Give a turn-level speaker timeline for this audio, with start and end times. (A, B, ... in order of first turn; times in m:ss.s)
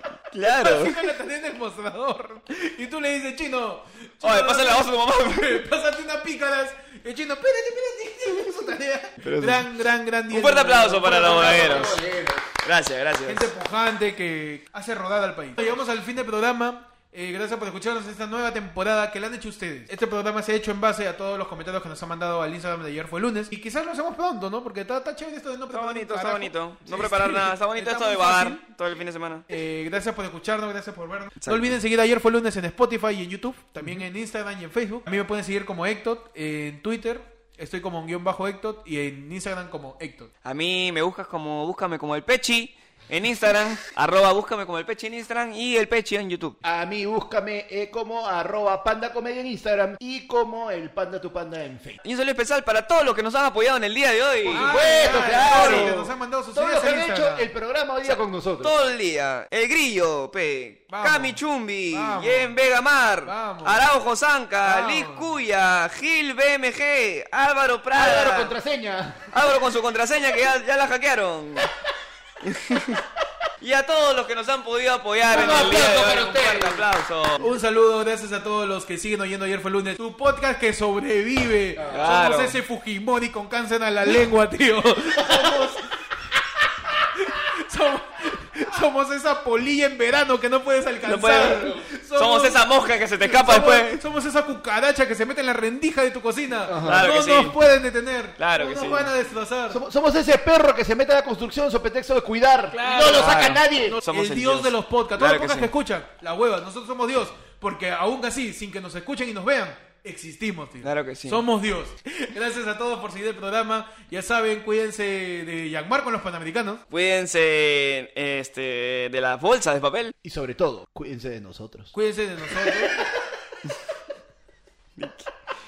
0:00.3-0:01.1 A
0:00.5-0:12.0 B
0:04.2-0:05.6 A
0:09.2-0:09.7 A
0:10.3-0:12.0 A
0:11.2-0:12.5 C
0:12.6-0:13.5 A
0:13.2-0:28.6 B
0:25.7-0:29.4 A
0:29.5-0:40.3 B
0:31.4-0:31.7 A
0:40.4-0:46.6 A
0:46.6-0:52.0 C
0:52.0-0:56.0 A
0:54.4-0:58.7 C
0:54.5-0:57.5 B
0:58.0-1:08.5 A
1:00.9-1:01.4 B
1:01.9-1:02.6 B
1:03.2-1:03.8 B
1:04.6-1:05.3 B
1:08.0-1:09.4 C
1:09.3-1:11.7 A
1:12.4-1:13.0 A
1:13.6-1:17.5 A
1:15.3-1:16.9 C
1:17.4-1:25.9 B
1:21.8-1:22.1 C
1:21.9-1:22.6 A
1:25.2-1:25.6 C
1:27.1-1:32.6 B
1:31.0-1:34.0 A
1:31.4-1:31.8 C
1:33.2-1:39.8 B
1:36.6-1:37.1 C
1:36.8-1:37.6 A
1:38.4-1:39.1 A
1:39.7-1:44.0 C
1:42.7-1:56.8 B
1:43.0-1:45.7 A
1:50.8-1:51.4 A
1:56.9-2:00.1 A
2:00.2-2:01.9 C
2:01.9-2:03.0 B
2:05.0-2:05.3 A